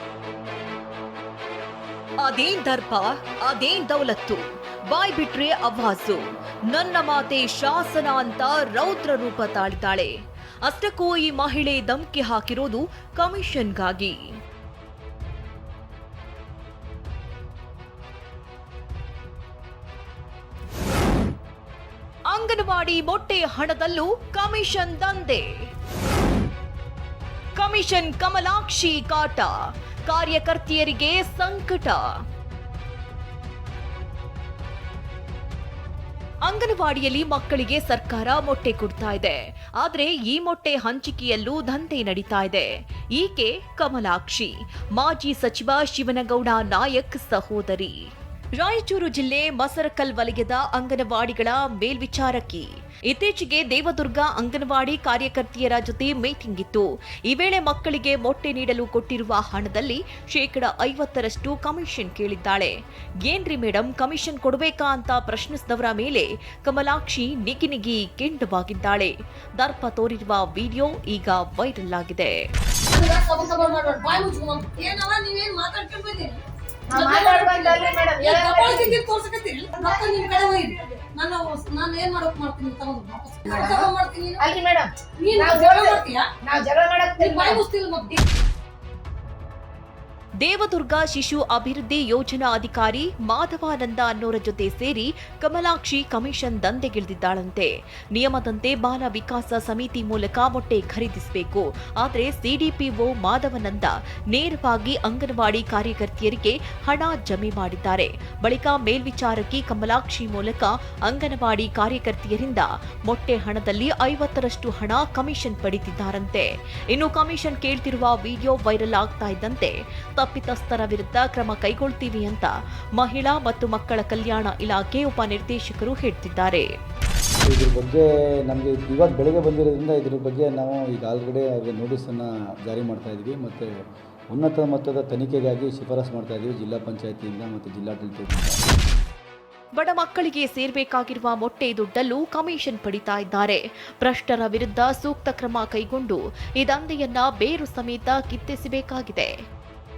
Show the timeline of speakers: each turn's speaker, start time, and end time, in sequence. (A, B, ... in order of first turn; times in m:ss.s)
0:02.2-0:14.2 A
0:22.3-0:25.4 A
0:27.6-0:29.5 A
0:30.0-0:32.0 A
0:36.4-0:47.9 A
0:48.6-1:12.3 A
1:12.9-1:16.4 B
1:16.9-1:19.0 C
1:16.9-1:24.4 B
1:19.8-1:20.6 C
1:23.4-1:23.9 C
1:24.4-1:27.6 C
1:25.2-1:26.2 B
1:27.2-1:28.2 B
1:30.4-2:06.7 A
2:07.5-2:13.7 D
2:14.3-2:18.6 D
2:19.8-2:29.3 A